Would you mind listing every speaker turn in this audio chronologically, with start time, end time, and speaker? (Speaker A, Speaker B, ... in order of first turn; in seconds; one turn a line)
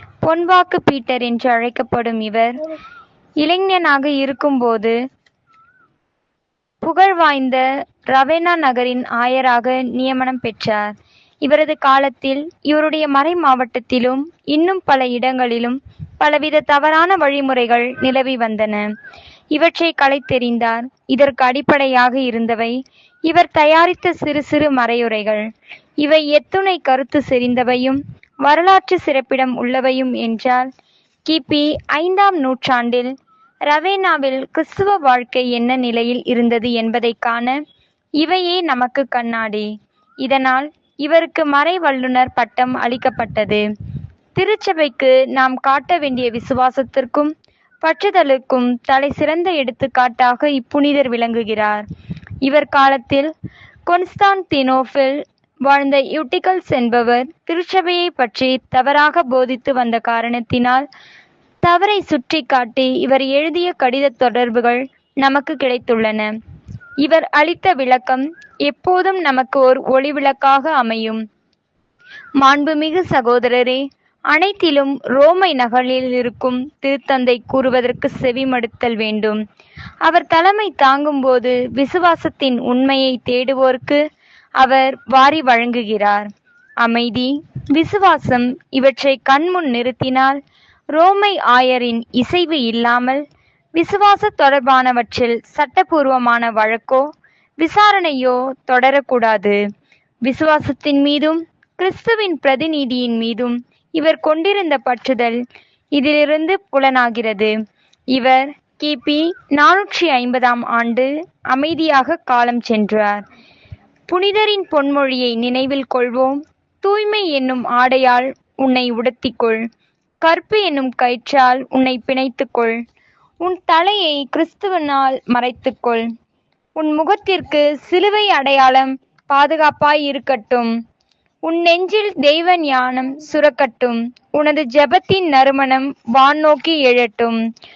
Speaker A: 0.2-2.7
Speaker A: 3.4-5.0
Speaker A: 6.8-10.9
Speaker A: 11.4-18.9
Speaker A: 19.5-25.4
Speaker A: 26.0-30.7
Speaker A: 31.2-33.1
Speaker A: 33.7-37.6
Speaker A: 38.2-39.7
Speaker A: 40.2-43.6
Speaker A: 44.3-47.3
Speaker A: 47.8-51.8
Speaker A: 52.4-53.3
Speaker A: 53.9-60.8
Speaker A: 61.6-66.3
Speaker A: 67.0-71.2
Speaker A: 72.4-79.4
Speaker A: 80.0-84.0
Speaker A: 84.6-86.3
Speaker A: 86.8-90.4
Speaker A: 90.9-93.2
Speaker A: 93.8-97.0
Speaker A: 97.6-99.6
Speaker A: 100.2-105.4
Speaker A: 106.0-107.5
Speaker A: 108.1-113.2
Speaker A: 114.1-119.6
Speaker A: 120.2-122.8
Speaker A: 123.4-126.0
Speaker A: 126.8-130.7
Speaker A: 131.4-137.4